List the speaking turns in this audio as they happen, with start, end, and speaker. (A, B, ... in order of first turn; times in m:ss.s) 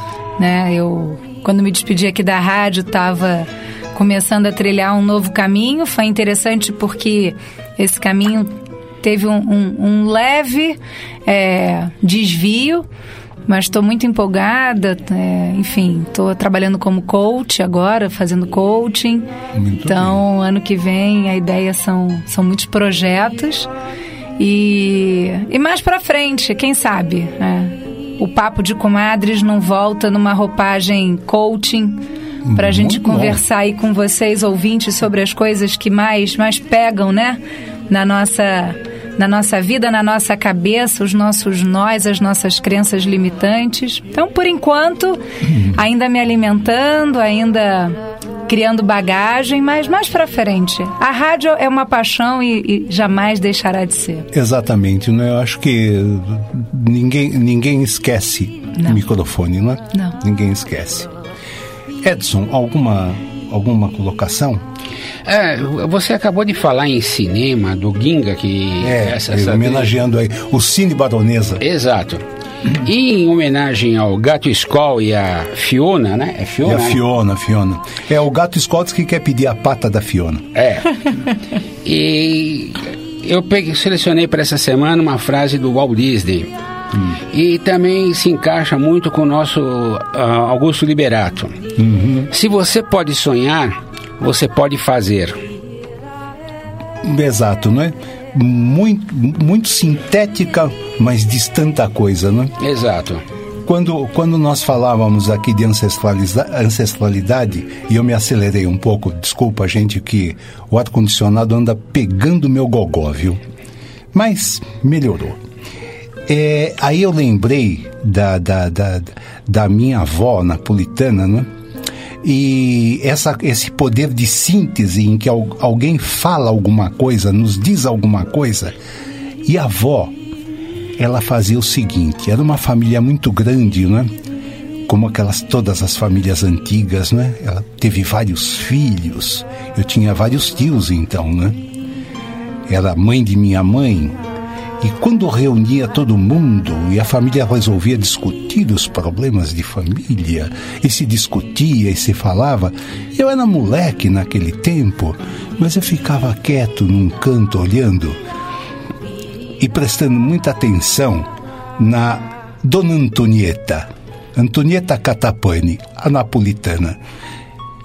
0:00.4-0:12.8 A
0:13.5-0:19.3 A
0:19.5-0:20.2 B
0:19.9-0:23.7 A
0:24.4-0:32.0 A
0:32.4-0:33.4 B
0:32.6-0:45.2 A
0:45.5-0:45.8 B
0:45.8-0:48.0 A
0:48.5-0:54.3 A
0:54.3-1:01.1 B
1:02.0-1:04.6 B
1:05.2-1:09.9 C
1:08.8-1:11.6 B
1:11.6-1:12.2 C
1:12.8-1:17.0 C
1:16.6-1:20.5 B
1:20.6-1:20.9 C
1:21.8-1:26.5 C
1:27.3-1:31.6 C
1:31.8-1:32.3 B
1:32.3-1:35.4 C
1:37.0-1:42.5 B
1:42.6-1:43.2 C
1:43.7-1:53.4 B
1:54.1-1:55.4 B
1:56.3-2:01.5 B
2:02.2-2:08.8 B
2:09.4-2:10.2 B
2:11.0-2:14.1 B
2:14.9-2:21.6 B
2:22.7-2:24.2 B
2:24.8-2:38.2 B
2:39.6-2:47.0 B